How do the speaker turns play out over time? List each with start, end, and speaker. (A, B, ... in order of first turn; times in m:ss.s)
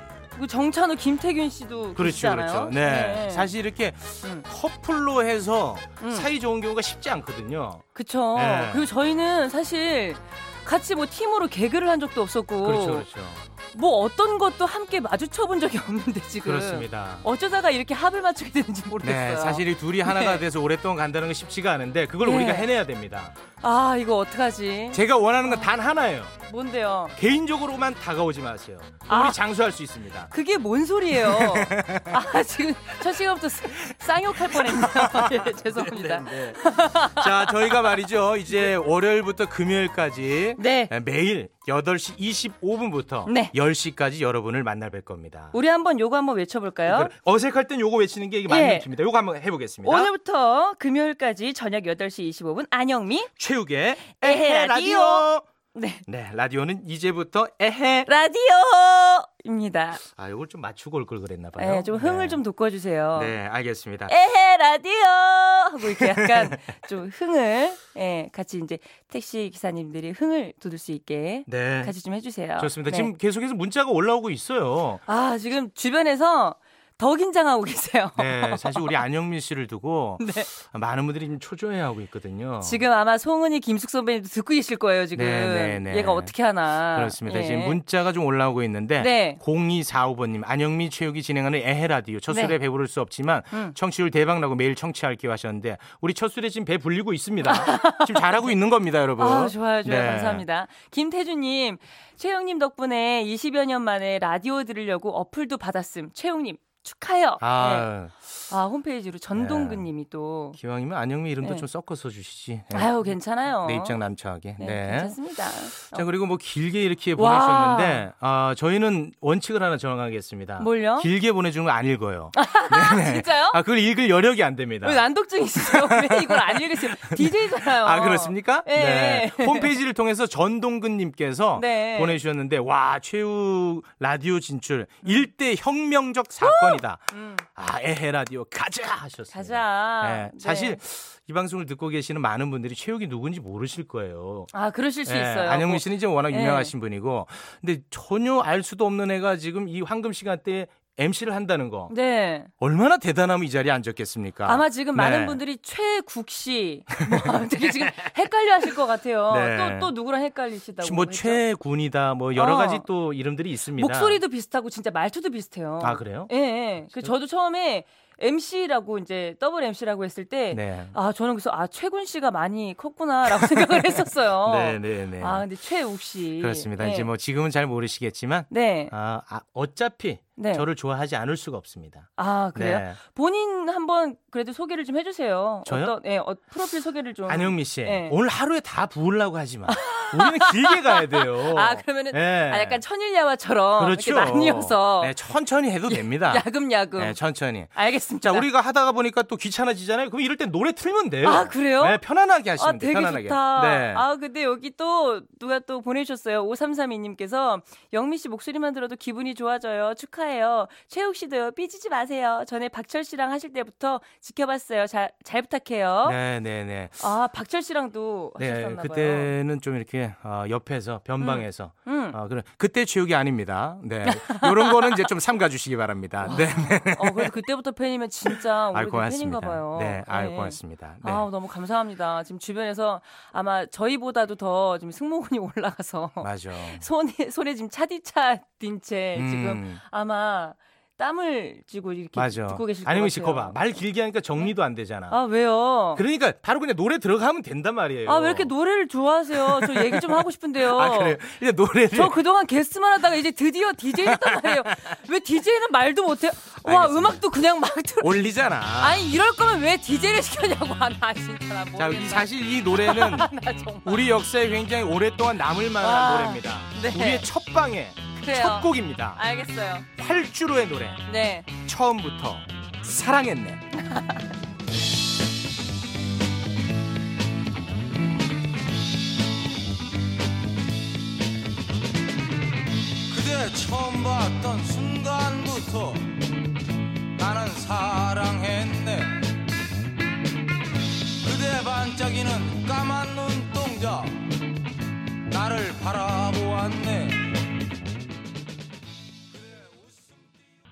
0:00.3-0:03.5 A
0:01.9-0:08.9 B
0:06.0-0:06.3 A
0:07.9-0:13.1 A
0:12.6-0:13.4 B
0:13.7-0:20.4 A
0:16.4-0:17.2 B
0:19.0-0:23.3 B
0:22.2-0:22.7 A
0:23.6-0:25.7 A
0:24.9-0:26.3 B
0:26.4-0:27.1 A
0:27.2-0:30.3 B
0:29.1-0:29.4 A
0:30.3-0:38.0 A
0:31.1-0:32.2 B
0:33.8-0:45.6 B
0:40.6-0:40.9 A
0:43.2-0:43.5 A
0:45.5-0:47.1 A
0:46.8-0:50.1 B
0:48.5-0:48.9 A
0:49.8-0:53.3 A
0:53.4-0:55.5 B
0:54.2-0:56.0 A
0:56.0-0:58.1 B
0:58.1-1:00.0 A
1:00.1-1:02.4 B
1:01.6-1:03.3 A
1:03.1-1:04.1 B
1:04.1-1:13.1 A
1:05.8-1:06.6 B
1:11.5-1:11.9 B
1:12.6-1:15.0 B
1:15.1-1:19.0 A
1:18.2-1:22.8 B
1:20.2-1:20.5 A
1:22.6-1:27.8 A
1:25.1-1:26.3 B
1:26.9-1:40.4 B
1:29.0-1:29.4 A
1:32.3-1:32.6 A
1:37.4-1:38.5 A
1:39.2-1:47.9 A
1:47.4-1:48.3 B
1:48.5-1:50.6 A
1:49.3-1:49.9 B
1:50.6-1:55.2 B
1:51.4-1:51.6 A
1:52.7-1:54.0 A
1:54.6-1:56.0 A
1:55.8-2:05.0 B
1:57.2-1:58.0 A
2:00.6-2:01.1 A
2:02.4-2:03.6 A
2:04.8-2:09.7 A
2:05.6-2:24.5 B
2:11.6-2:12.2 A
2:16.4-2:17.4 A
2:19.3-2:20.8 A
2:24.5-2:26.7 A
2:25.0-2:31.9 B
2:31.9-2:32.5 A
2:32.6-2:35.4 B
2:34.4-2:41.4 A
2:37.2-2:37.9 B
2:39.3-2:39.9 B
2:40.8-2:44.2 B
2:42.3-2:42.8 A
2:43.8-2:57.1 A
2:45.8-2:47.1 B
2:50.5-2:50.9 B
2:54.4-2:55.4 B
2:56.4-3:03.0 B
2:58.5-2:58.9 A
3:00.4-3:00.6 A
3:02.2-3:08.2 A
3:05.6-3:05.9 B
3:07.3-3:12.8 B
3:09.7-3:15.2 A
3:13.8-3:24.0 B
3:15.9-3:17.2 A
3:17.7-3:18.5 A
3:21.2-3:22.0 A
3:22.6-3:36.2 A
3:36.0-3:37.0 B
3:37.0-3:39.3 A
3:38.4-3:47.3 B
3:41.2-3:42.2 A
3:44.0-3:45.0 A
3:46.2-4:03.6 A
3:48.3-3:51.2 B
3:56.2-3:56.8 B
3:59.1-3:59.8 B
4:02.1-4:05.2 B
4:05.1-4:06.0 A
4:05.9-4:08.5 B
4:08.0-4:11.2 A
4:09.3-4:12.2 B
4:11.9-4:24.1 A
4:14.0-4:14.9 B
4:16.6-4:17.2 B
4:18.0-4:19.0 B
4:21.8-4:23.3 B
4:23.8-4:29.2 B
4:25.8-4:27.3 A
4:28.2-4:29.9 A
4:30.0-4:31.0 B
4:31.1-4:31.5 A
4:31.6-4:33.6 B
4:33.8-4:34.2 A
4:43.1-4:46.2 C
4:47.2-4:49.4 C
4:51.2-4:54.4 C
4:55.3-4:57.4 C
4:59.3-5:00.1 C